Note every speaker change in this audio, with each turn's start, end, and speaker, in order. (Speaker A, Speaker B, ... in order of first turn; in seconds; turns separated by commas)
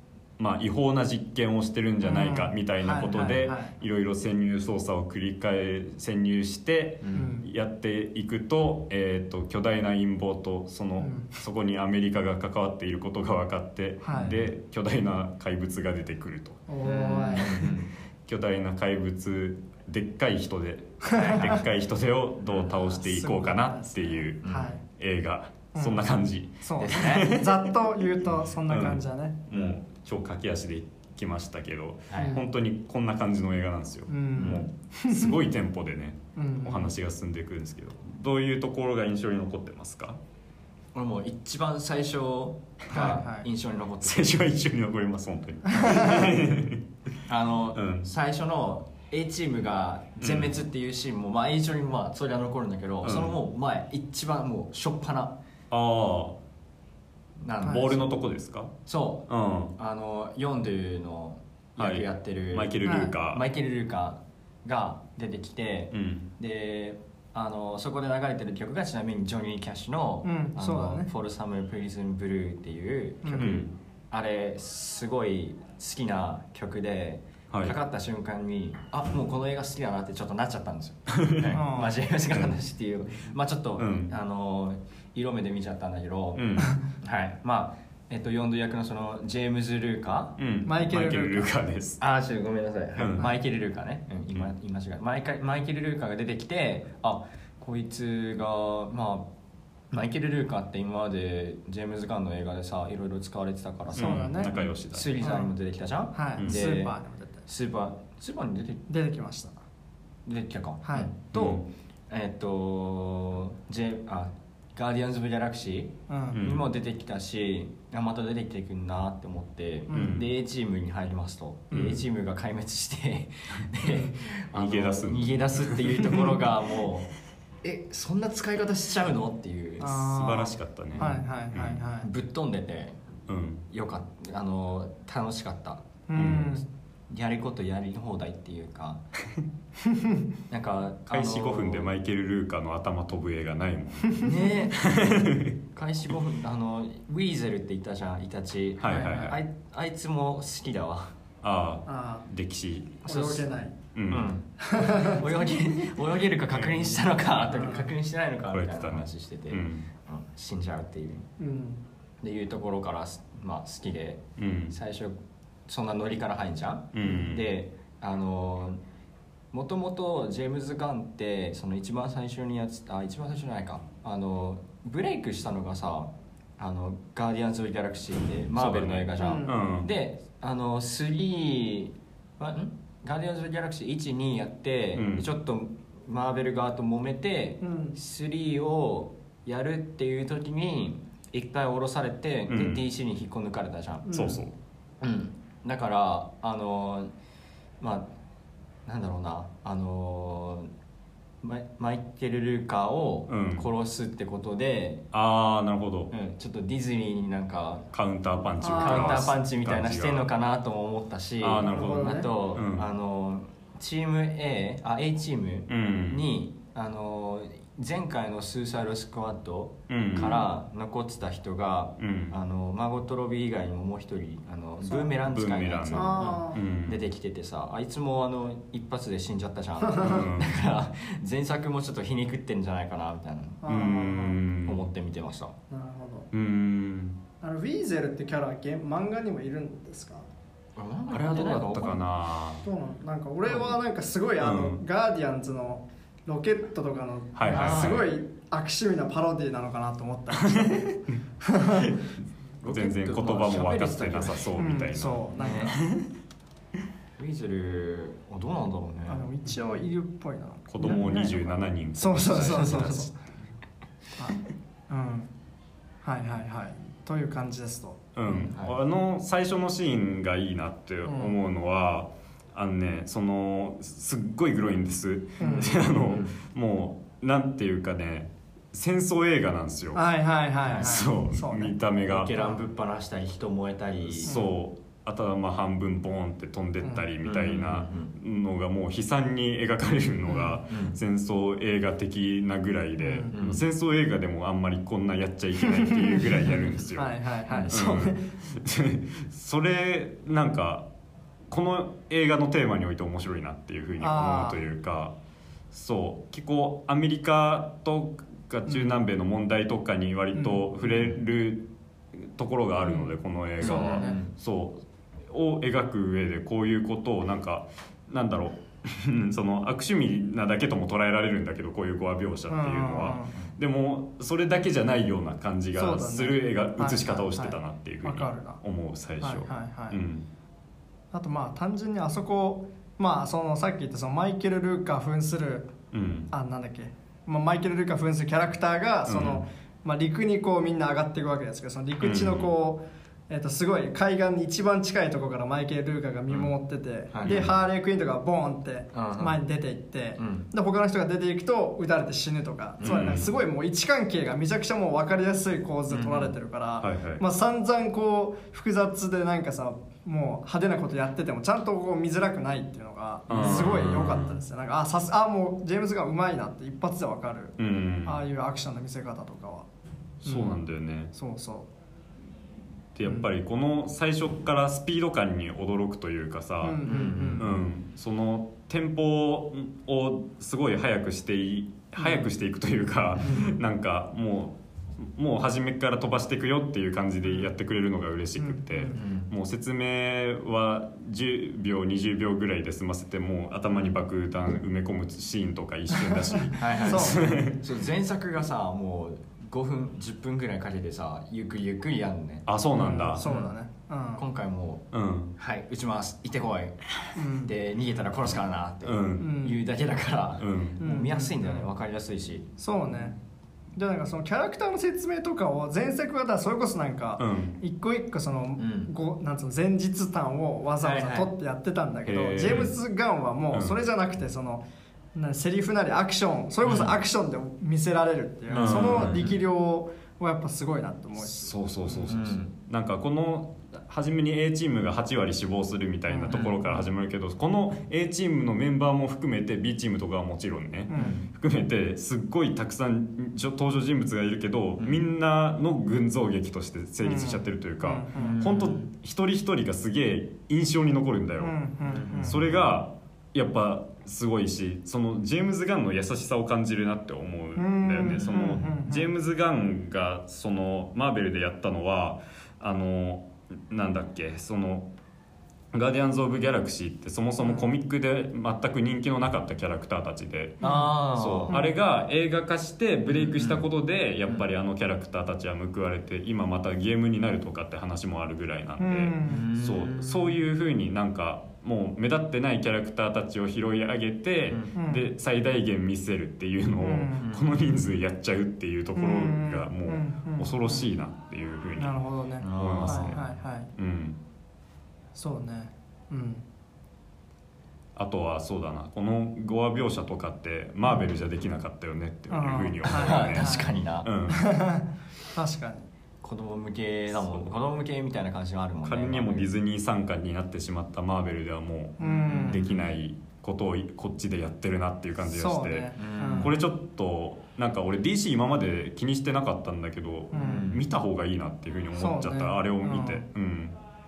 Speaker A: 0.4-16.6, Speaker B: 2.0-3.7, Speaker C: 7.0-7.3, Speaker B: 7.1-7.5, Speaker B: 11.0-11.3, Speaker B: 14.0-14.4, Speaker C: 14.1-14.4, Speaker B: 16.7-17.7, Speaker C: 16.8-17.9, Speaker A: 18.2-27.7, Speaker B: 21.0-21.6, Speaker C: 21.1-21.6, Speaker C: 22.5-22.8, Speaker B: 23.0-24.8, Speaker C: 24.4-24.7, Speaker B: 25.7-26.0, Speaker B: 26.6-29.4, Speaker C: 26.8-27.3, Speaker A: 28.6-40.2, Speaker C: 29.5-29.8, Speaker C: 32.1-32.4, Speaker B: 32.1-32.4, Speaker B: 34.1-35.3, Speaker C: 34.3-34.7, Speaker B: 36.4-36.9, Speaker C: 40.9-44.5, Speaker B: 42.9-43.4, Speaker A: 44.0-47.1, Speaker B: 45.7-46.3, Speaker C: 47.3-55.4, Speaker A: 47.7-48.1, Speaker A: 50.2-50.6, Speaker A: 53.0-53.4, Speaker A: 55.7-56.4, Speaker C: 57.4-58.1, Speaker B: 57.6-57.9, Speaker A: 57.6-58.7, Speaker C: 58.9-90.4, Speaker A: 59.3-59.7, Speaker A: 61.8-63.5, Speaker B: 62.8-63.1, Speaker A: 65.9-66.3, Speaker B: 70.2-71.1, Speaker B: 73.2-73.6, Speaker A: 73.4-73.7, Speaker A: 81.1-81.6, Speaker B: 81.5-82.0, Speaker A: 83.8-84.1, Speaker A: 86.3-86.8, Speaker A: 90.4-92.0, Speaker B: 90.7-91.5, Speaker C: 92.0-99.3, Speaker A: 93.0-93.3, Speaker C: 99.9-106.9, Speaker A: 103.9-105.2, Speaker B: 104.0-104.5, Speaker B: 105.2-105.5, Speaker B: 106.1-107.4, Speaker C: 107.5-108.8, Speaker B: 108.9-109.6, Speaker C: 110.2-127.1, Speaker B: 110.8-111.1, Speaker A: 111.3-111.7, Speaker B: 116.1-116.4, Speaker A: 116.3-116.7, Speaker B: 119.9-120.2, Speaker A: 119.9-120.3, Speaker A: 121.7-122.0, Speaker B: 123.8-124.2, Speaker A: 124.5-126.2, Speaker C: 127.6-129.9, Speaker B: 129.8-132.1, Speaker A: 129.8-131.8, Speaker C: 130.9-131.2, Speaker C: 132.0-133.0, Speaker A: 133.3-133.7, Speaker C: 133.7-139.0, Speaker B: 136.1-136.6, Speaker A: 136.2-136.5, Speaker B: 139.8-140.2, Speaker C: 140.5-141.9, Speaker A: 141.1-145.6, Speaker C: 144.2-144.8, Speaker C: 145.7-151.1, Speaker A: 148.8-149.4, Speaker B: 148.9-149.3, Speaker A: 151.4-153.0, Speaker B: 151.8-152.2, Speaker B: 153.0-153.8, Speaker C: 153.1-153.5, Speaker A: 153.9-154.3, Speaker C: 154.1-161.3, Speaker B: 154.6-155.3, Speaker A: 156.5-156.9, Speaker B: 157.5-157.9, Speaker A: 158.5-159.9, Speaker B: 161.4-161.8, Speaker C: 162.2-165.1, Speaker A: 164.4-164.8, Speaker C: 165.7-168.8, Speaker A: 166.9-167.5, Speaker C: 169.5-194.1, Speaker A: 178.6-179.9, Speaker B: 179.2-179.6, Speaker A: 184.9-185.3, Speaker B: 187.6-187.9, Speaker A: 192.5-192.8, Speaker B: 194.0-194.5, Speaker A: 194.1-194.5, Speaker C: 195.0-197.1, Speaker C: 197.8-198.1, Speaker C: 198.8-200.7, Speaker C: 201.4-205.1, Speaker A: 203.3-203.7, Speaker A: 205.1-206.1, Speaker C: 206.1-207.9, Speaker A: 207.9-210.3, Speaker B: 208.6-209.3, Speaker C: 208.8-233.7, Speaker A: 211.4-212.9, Speaker B: 211.7-212.3, Speaker A: 215.7-216.2, Speaker A: 219.9-220.4, Speaker B: 220.2-220.5, Speaker A: 222.0-222.4, Speaker A: 225.2-227.0, Speaker B: 225.9-226.6, Speaker B: 229.8-230.2, Speaker A: 230.0-230.6, Speaker B: 233.6-234.4, Speaker A: 233.7-234.8, Speaker C: 234.6-235.6, Speaker B: 235.7-236.3, Speaker A: 236.3-237.2, Speaker B: 237.4-240.3, Speaker C: 240.8-242.0, Speaker A: 241.1-242.7, Speaker B: 242.6-252.0, Speaker C: 243.5-243.7, Speaker A: 244.4-244.8, Speaker A: 247.3-248.1, Speaker C: 247.5-248.1, Speaker A: 250.4-251.2, Speaker A: 251.8-252.1, Speaker C: 252.6-254.5, Speaker A: 252.6-256.1, Speaker B: 254.6-255.8, Speaker C: 255.3-255.8, Speaker C: 257.2-259.2, Speaker B: 259.1-263.1, Speaker A: 260.7-263.4, Speaker C: 262.4-262.9, Speaker B: 264.2-265.3, Speaker B: 266.0-268.5, Speaker A: 268.1-280.1, Speaker C: 268.5-268.8, Speaker B: 271.1-271.3, Speaker B: 275.4-275.7, Speaker C: 275.4-276.3, Speaker B: 279.9-281.7, Speaker C: 280.6-281.0, Speaker A: 280.7-282.4, Speaker C: 282.1-284.3, Speaker A: 284.1-300.9, Speaker B: 284.2-284.6, Speaker B: 286.8-287.1, Speaker C: 287.2-288.1, Speaker B: 290.3-290.6, Speaker C: 290.7-291.0, Speaker B: 293.0-293.3, Speaker C: 293.3-293.6, Speaker B: 295.6-298.3, Speaker A: 301.5-305.1, Speaker B: 304.0-304.6, Speaker A: 305.7-330.3, Speaker B: 308.6-309.0, Speaker B: 310.3-310.9, Speaker B: 312.8-313.1, Speaker C: 313.6-314.3, Speaker B: 313.6-314.2, Speaker B: 322.5-323.3, Speaker B: 325.8-328.6, Speaker B: 329.2-330.0, Speaker B: 331.1-335.7, Speaker A: 335.9-336.3, Speaker B: 336.3-369.7, Speaker A: 339.1-339.5, Speaker A: 342.0-342.5, Speaker C: 347.1-347.4, Speaker A: 347.2-347.5, Speaker C: 348.9-349.4, Speaker C: 350.2-350.5, Speaker C: 352.8-353.3, Speaker A: 352.8-353.3, Speaker C: 355.9-356.3, Speaker A: 356.8-357.2, Speaker A: 363.3-364.4, Speaker C: 363.3-363.6, Speaker A: 367.6-368.2, Speaker B: 370.2-370.6, Speaker A: 370.2-371.1, Speaker B: 371.1-371.7, Speaker A: 372.9-376.8, Speaker B: 376.6-377.5, Speaker C: 376.9-377.6, Speaker A: 377.4-397.6, Speaker B: 382.0-382.3, Speaker C: 383.2-383.6, Speaker B: 388.4-389.0, Speaker C: 388.9-389.3, Speaker C: 393.7-394.0, Speaker B: 395.9-397.2, Speaker C: 396.6-402.4, Speaker A: 402.4-403.2, Speaker B: 402.7-404.2, Speaker C: 403.2-403.5, Speaker C: 404.2-404.9, Speaker A: 404.9-405.3, Speaker C: 405.4-412.5, Speaker B: 407.1-407.5, Speaker A: 408.8-409.3, Speaker B: 409.2-409.6, Speaker A: 410.4-410.8, Speaker B: 410.8-411.7, Speaker B: 412.6-413.1, Speaker B: 413.8-424.6, Speaker A: 417.2-417.6, Speaker C: 418.6-418.9, Speaker C: 420.8-421.3, Speaker A: 422.1-422.7, Speaker A: 423.5-423.8, Speaker B: 425.1-432.1, Speaker C: 426.6-426.9, Speaker C: 428.5-429.4, Speaker A: 428.5-429.3, Speaker A: 431.2-451.6, Speaker C: 432.1-432.5, Speaker B: 436.1-436.8, Speaker C: 436.3-436.6, Speaker B: 440.9-441.2, Speaker C: 441.0-441.2, Speaker C: 444.8-445.0, Speaker B: 447.0-448.4, Speaker C: 448.1-448.9, Speaker B: 451.4-452.4, Speaker C: 451.8-452.7, Speaker A: 452.2-464.9, Speaker B: 457.6-459.1, Speaker C: 458.0-458.7, Speaker A: 465.7-492.0, Speaker B: 467.4-467.7, Speaker B: 470.6-470.9, Speaker C: 470.6-471.5, Speaker B: 471.5-471.8, Speaker C: 473.1-473.7, Speaker B: 478.8-479.5, Speaker C: 479.2-480.4, Speaker B: 484.7-485.0, Speaker B: 486.8-487.2, Speaker C: 487.2-487.4, Speaker B: 488.9-490.9, Speaker B: 491.8-493.7, Speaker C: 492.4-493.2, Speaker A: 492.5-494.2, Speaker B: 495.1-496.4, Speaker A: 497.9-504.5, Speaker B: 502.3-503.7, Speaker C: 502.8-504.1, Speaker B: 504.3-505.9, Speaker C: 506.2-509.5, Speaker A: 507.1-507.4, Speaker A: 508.8-523.8, Speaker B: 512.0-512.6, Speaker C: 512.0-512.9, Speaker B: 515.3-516.5, Speaker C: 516.0-516.5, Speaker B: 520.3-520.6, Speaker C: 520.4-520.9, Speaker B: 522.0-523.2